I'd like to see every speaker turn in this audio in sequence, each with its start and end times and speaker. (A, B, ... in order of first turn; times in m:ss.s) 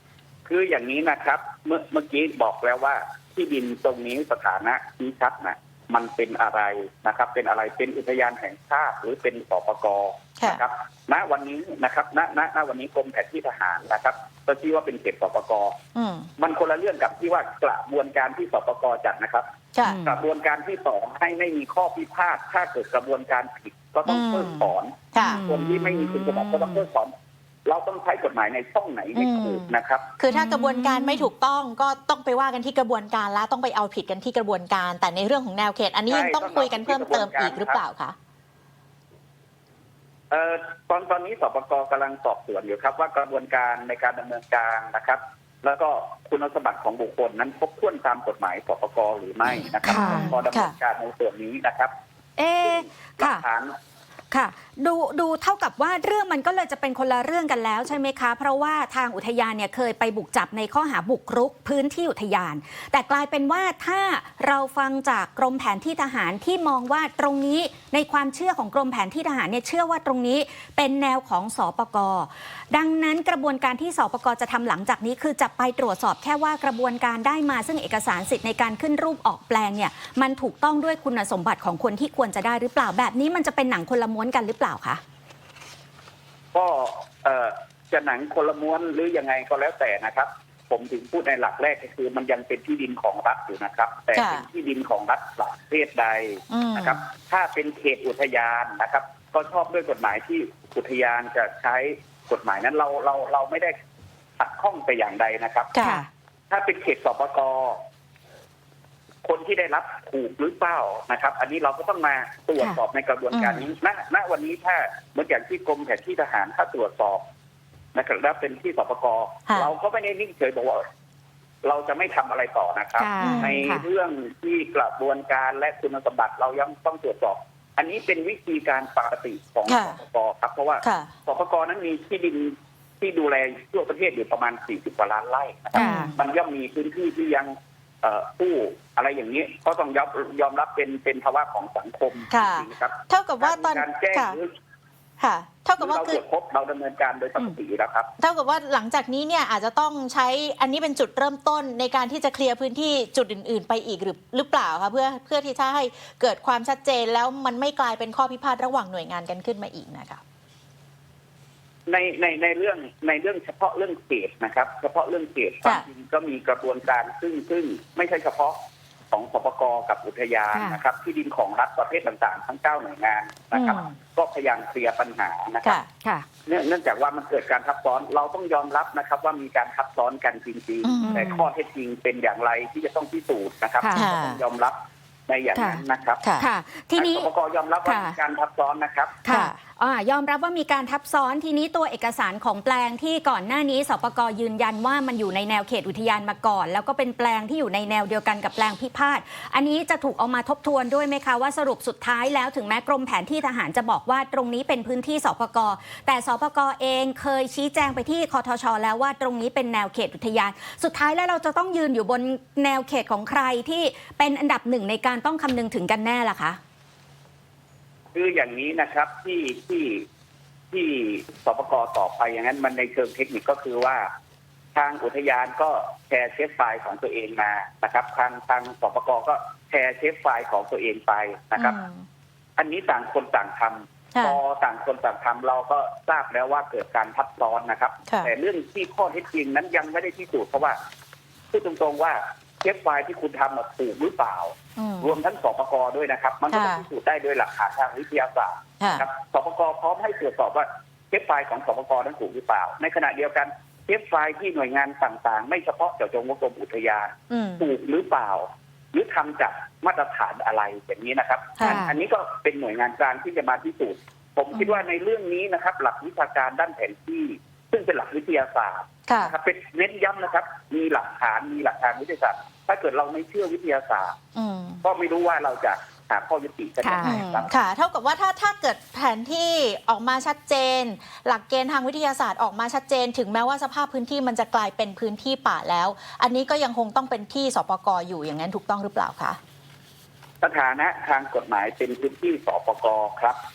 0:00.5-0:15.8 A
0:15.9-0:16.3 B
0:16.4-0:19.4 A
0:19.7-0:20.0 B
0:19.8-0:20.2 C
0:20.0-0:27.1 A
0:24.1-0:25.4 B
0:25.2-0:26.8 C
0:27.7-0:30.1 A
0:29.2-0:38.2 B
0:30.3-0:31.3 C
0:36.1-0:37.8 A
0:40.3-0:51.9 A
0:49.9-0:50.3 C
0:49.9-0:50.8 B
0:52.4-0:53.4 C
0:52.6-0:53.7 A
0:54.3-1:25.0 C
1:26.5-1:43.8 A
1:34.1-1:34.4 B
1:36.5-1:37.0 B
1:44.4-1:45.7 A
1:45.7-1:46.0 B
1:45.8-1:46.1 C
1:46.5-1:47.8 A
1:49.2-1:57.2 A
1:53.3-1:53.6 B
1:57.9-2:00.8 A
2:01.6-2:17.5 A
2:03.0-2:03.9 C
2:03.2-2:03.6 B
2:09.7-2:10.0 B
2:10.8-2:11.1 B
2:15.8-2:16.1 C
2:15.8-2:16.1 B
2:18.0-2:24.5 A
2:22.3-2:24.4 B
2:25.2-2:26.2 B
2:25.8-2:28.1 A
2:28.2-2:40.2 B
2:41.9-2:48.6 A
2:49.1-2:55.8 A
2:50.5-2:50.8 C
2:53.5-2:54.0 B
2:56.5-3:04.8 A
3:00.8-3:01.4 B
3:01.0-3:01.4 C
3:03.8-3:04.1 C
3:03.9-3:04.4 B
3:05.3-3:06.2 A
3:05.5-3:05.8 C
3:06.2-3:06.5 B
3:06.4-3:07.3 C
3:07.0-3:09.2 A
3:07.8-3:08.2 C
3:09.2-3:36.6 C
3:09.3-3:09.6 B
3:38.1-3:40.0 A
3:40.7-3:44.0 A
3:44.8-3:51.8 A
3:51.6-3:52.0 B
3:52.6-4:00.8 A
4:01.5-4:34.1 A
4:04.8-4:05.1 B
4:06.5-4:06.8 B
4:08.8-4:09.0 B
4:17.3-4:17.7 B
4:21.6-4:21.9 B
4:21.6-4:22.0 C
4:24.5-4:24.8 B
4:29.1-4:29.3 B
4:34.4-4:34.8 B
4:34.8-4:37.5 A
4:36.8-4:37.2 C
4:37.0-4:49.4 B
4:50.4-4:53.4 A